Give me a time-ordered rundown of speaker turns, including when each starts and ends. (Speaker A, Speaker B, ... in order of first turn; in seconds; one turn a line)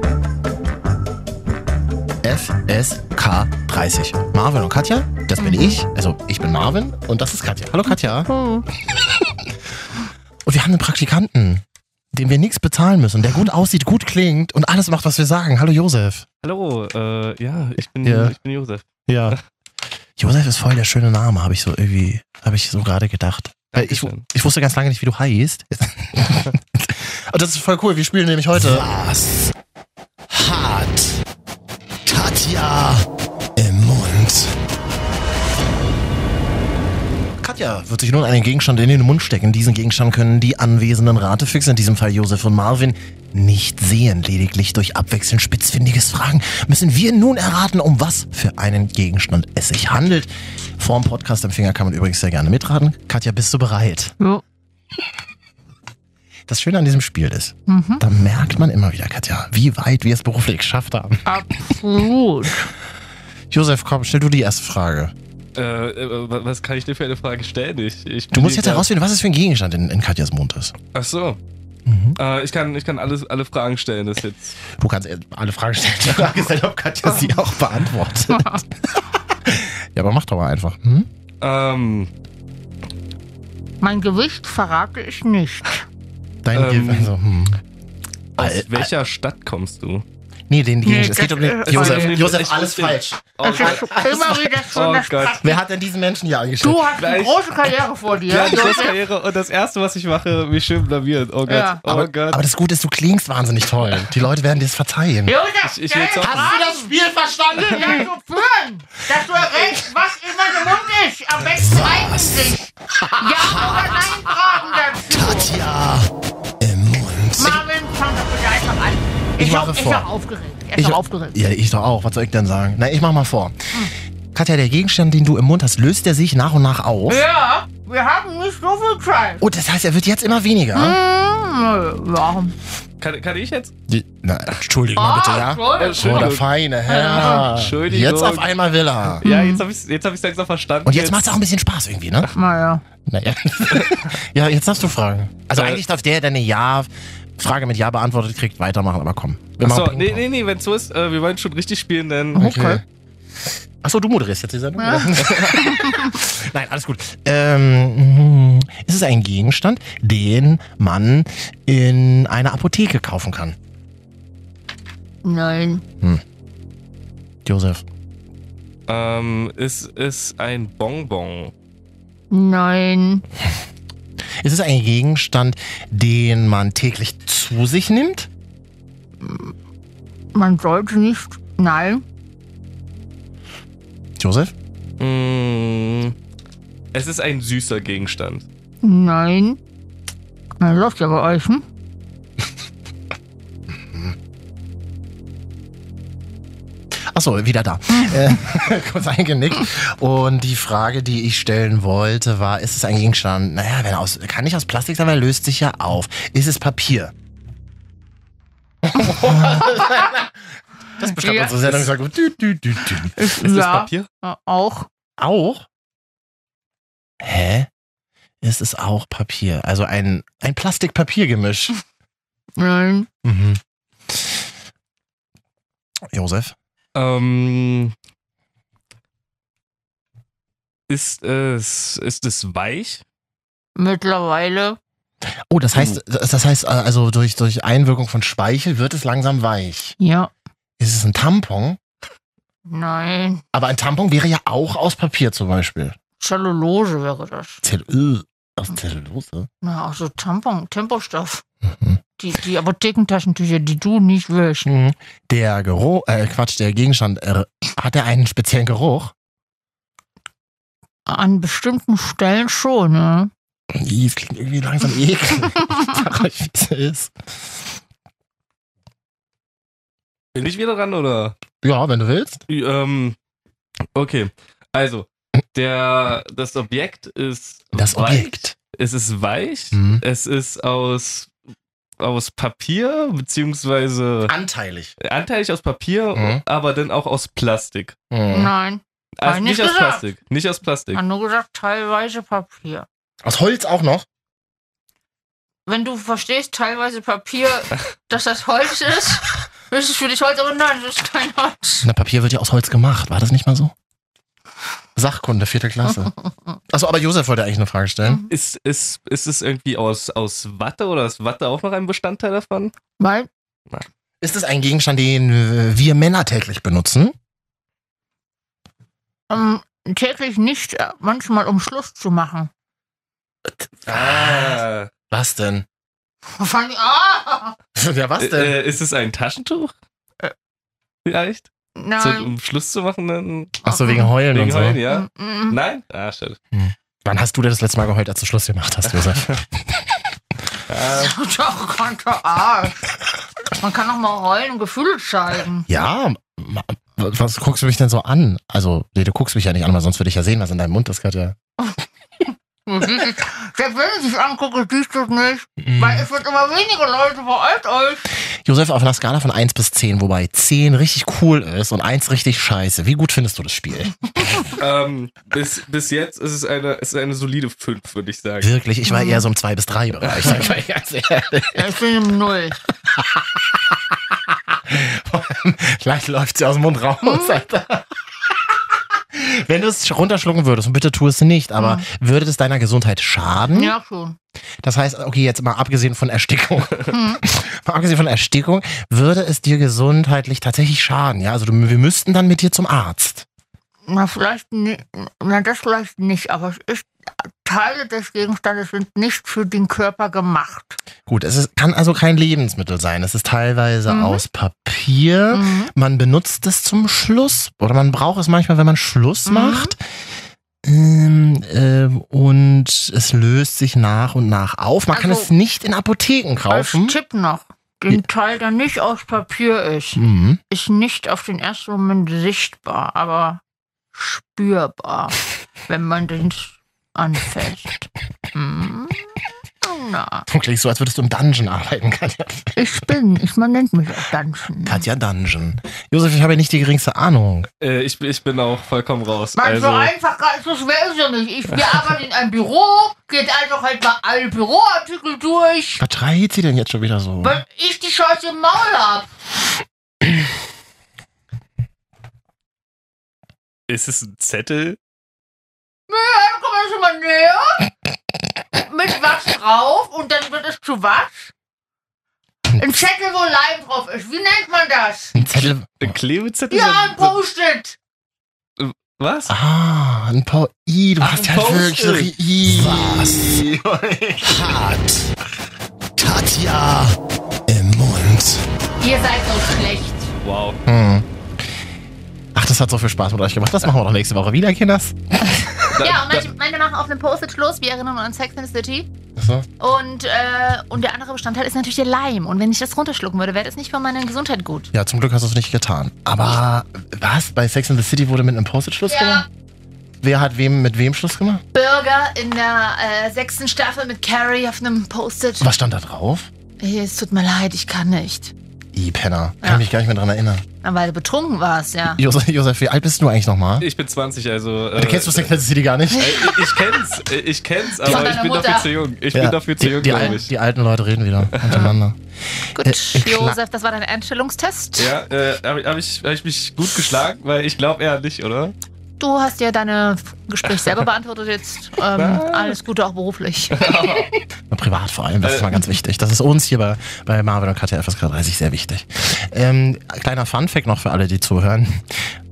Speaker A: 2.2-8.3
Speaker B: 5.4-5.8
Speaker B: 7.9-8.7
Speaker A: 10.4-16.2
Speaker C: 16.4-19.4
Speaker A: 18.0-18.4
Speaker A: 19.1-19.4
Speaker A: 20.2-29.3
Speaker C: 23.7-24.2
Speaker A: 30.3-31.1
Speaker A: 32.1-33.0
Speaker A: 33.5-34.5
Speaker A: 37.4-54.1
Speaker A: 56.5-61.3
Speaker B: 57.7-58.0
Speaker B: 61.2-62.7
Speaker A: 63.5-65.1
Speaker C: 65.5-68.9
Speaker A: 68.3-70.8
Speaker C: 70.9-71.4
Speaker A: 71.9-72.2
Speaker C: 72.2-74.5
Speaker A: 74.7-81.1
Speaker B: 77.1-77.3
Speaker B: 78.3-78.6
Speaker C: 81.4-82.1
Speaker B: 83.8-85.8
Speaker A: 86.4-87.6
Speaker C: 86.5-87.1
Speaker A: 88.4-88.9
Speaker C: 88.4-90.0
Speaker A: 90.5-94.7
Speaker B: 90.8-92.2
Speaker C: 91.6-95.4
Speaker B: 93.4-95.6
Speaker A: 95.4-96.9
Speaker B: 96.6-99.0
Speaker C: 97.0-97.4
Speaker C: 98.2-102.4
Speaker B: 101.5-101.8
Speaker A: 101.8-105.3
Speaker B: 105.2-106.9
Speaker C: 105.6-106.6
Speaker A: 106.2-108.1
Speaker B: 107.5-112.6
Speaker A: 111.5-114.1
Speaker B: 113.2-115.5
Speaker A: 115.1-117.6
Speaker B: 117.3-121.4
Speaker A: 119.4-120.1
Speaker A: 120.8-123.7
Speaker A: 124.3-127.2
Speaker B: 127.1-129.4
Speaker A: 129.4-131.0
Speaker B: 130.7-132.6
Speaker C: 133.0-133.7
Speaker A: 133.9-139.2
Speaker B: 134.9-136.3
Speaker C: 135.7-136.5
Speaker B: 136.9-137.5
Speaker C: 137.1-138.5
Speaker C: 139.1-141.3
Speaker B: 139.2-139.7
Speaker A: 140.8-142.3
Speaker B: 142.3-142.8
Speaker A: 143.1-150.2
Speaker C: 143.8-144.0
Speaker C: 145.6-145.8
Speaker C: 149.6-152.5
Speaker B: 152.3-152.8
Speaker A: 152.4-152.8
Speaker A: 153.8-163.6
Speaker B: 154.8-156.1
Speaker C: 155.2-155.6
Speaker B: 165.2-165.8
Speaker A: 167.4-167.8
Speaker C: 168.9-171.5
Speaker B: 172.3-173.2
Speaker A: 174.4-178.3
Speaker B: 179.2-179.5
Speaker B: 180.3-182.0
Speaker A: 184.2-184.5
Speaker C: 185.0-186.1
Speaker C: 186.9-188.4
Speaker B: 188.8-189.6
Speaker B: 190.6-191.7
Speaker A: 193.9-194.2
Speaker A: 197.1-207.1
Speaker B: 197.9-198.4
Speaker A: 208.8-210.4
Speaker B: 208.9-210.1
Speaker A: 210.9-213.2
Speaker B: 211.0-211.7
Speaker B: 213.1-214.9
Speaker C: 213.3-214.1
Speaker A: 215.2-215.6
Speaker A: 217.2-217.7
Speaker A: 218.4-221.8
Speaker B: 222.6-223.1
Speaker A: 223.2-223.6
Speaker A: 226.1-226.5
Speaker C: 226.9-227.9
Speaker C: 230.9-233.0
Speaker B: 233.8-234.8
Speaker A: 235.5-239.9
Speaker B: 240.0-240.3
Speaker A: 240.8-241.8
Speaker B: 242.7-243.4
Speaker A: 243.5-245.9
Speaker B: 246.2-247.6
Speaker A: 247.6-249.5
Speaker B: 249.6-251.4
Speaker B: 252.2-254.7
Speaker A: 254.7-259.1
Speaker B: 261.1-263.3
Speaker A: 263.7-267.1
Speaker C: 270.3-271.4
Speaker A: 271.6-272.4
Speaker C: 272.5-273.1
Speaker C: 273.9-281.3
Speaker A: 277.7-278.5
Speaker A: 279.7-280.0
Speaker C: 282.0-284.3
Speaker A: 284.3-284.9
Speaker C: 285.0-287.9
Speaker A: 286.1-286.4
Speaker A: 288.1-288.5
Speaker B: 288.3-290.0
Speaker C: 289.2-291.0
Speaker B: 290.9-292.9
Speaker A: 293.2-294.1
Speaker B: 295.6-301.9
Speaker A: 301.8-303.7
Speaker A: 304.9-306.1
Speaker A: 306.7-308.2
Speaker B: 308.0-308.3
Speaker C: 308.3-312.7
Speaker B: 313.0-313.3
Speaker A: 314.2-317.1
Speaker B: 319.3-322.5
Speaker C: 323.9-324.9
Speaker A: 323.9-325.6
Speaker B: 326.3-327.6
Speaker A: 327.8-328.6
Speaker C: 328.2-329.7
Speaker C: 331.1-333.6
Speaker B: 331.8-332.3
Speaker A: 333.6-334.8
Speaker B: 333.7-334.1
Speaker C: 334.2-336.4
Speaker B: 334.8-335.6
Speaker A: 336.5-339.9
Speaker C: 339.0-339.4
Speaker C: 340.7-341.1
Speaker B: 340.8-342.9
Speaker B: 343.6-345.7
Speaker A: 345.7-351.4
Speaker B: 351.6-358.0
Speaker A: 355.6-356.1
Speaker A: 358.4-364.5
Speaker C: 364.6-368.5
Speaker A: 368.4-371.7
Speaker B: 368.9-369.2
Speaker C: 370.0-370.4
Speaker B: 371.5-372.6
Speaker A: 373.0-373.2
Speaker A: 374.5-377.9
Speaker B: 377.0-377.4
Speaker A: 379.1-383.7
Speaker B: 381.6-381.8
Speaker B: 383.5-384.2
Speaker A: 384.6-393.2
Speaker B: 386.9-387.2
Speaker B: 393.9-400.8
Speaker A: 401.1-409.8
Speaker B: 403.9-404.2
Speaker B: 405.3-405.7
Speaker B: 409.2-409.7
Speaker A: 410.6-416.9
Speaker B: 414.9-415.3
Speaker B: 416.5-423.4
Speaker A: 419.9-420.4
Speaker B: 423.9-430.2
Speaker A: 430.3-432.6
Speaker B: 432.6-434.8
Speaker A: 434.6-437.5
Speaker C: 437.6-439.9
Speaker B: 439.4-445.8
Speaker A: 445.8-447.4
Speaker B: 447.2-449.1
Speaker C: 453.7-454.8
Speaker B: 455.9-457.7
Speaker B: 458.5-461.3
Speaker B: 462.6-465.2
Speaker A: 465.1-465.9
Speaker C: 465.3-467.2
Speaker B: 466.5-467.8
Speaker C: 468.6-469.3
Speaker A: 469.3-474.4
Speaker C: 471.0-473.0
Speaker C: 474.4-474.8
Speaker C: 476.0-476.7
Speaker A: 477.5-478.4
Speaker B: 478.8-480.1
Speaker C: 480.2-480.6
Speaker A: 480.6-481.1
Speaker A: 482.3-485.7
Speaker C: 485.8-486.2
Speaker B: 485.8-488.9
Speaker A: 489.1-489.5
Speaker B: 489.6-494.7
Speaker A: 494.7-499.2
Speaker B: 498.9-499.2
Speaker A: 500.0-501.4
Speaker B: 501.5-505.5
Speaker A: 505.4-506.3
Speaker B: 506.6-508.3
Speaker A: 508.7-510.4
Speaker B: 509.4-509.7
Speaker B: 510.6-512.0
Speaker A: 511.9-513.6
Speaker C: 513.6-515.4
Speaker A: 514.7-516.4
Speaker B: 515.9-516.4
Speaker C: 516.0-520.3
Speaker B: 517.8-518.8
Speaker A: 519.1-523.4
Speaker C: 521.3-521.7
Speaker B: 522.5-525.0
Speaker C: 524.8-528.5
Speaker B: 529.0-533.7
Speaker C: 531.9-532.5
Speaker C: 533.5-534.1
Speaker A: 534.5-541.8
Speaker C: 535.2-535.7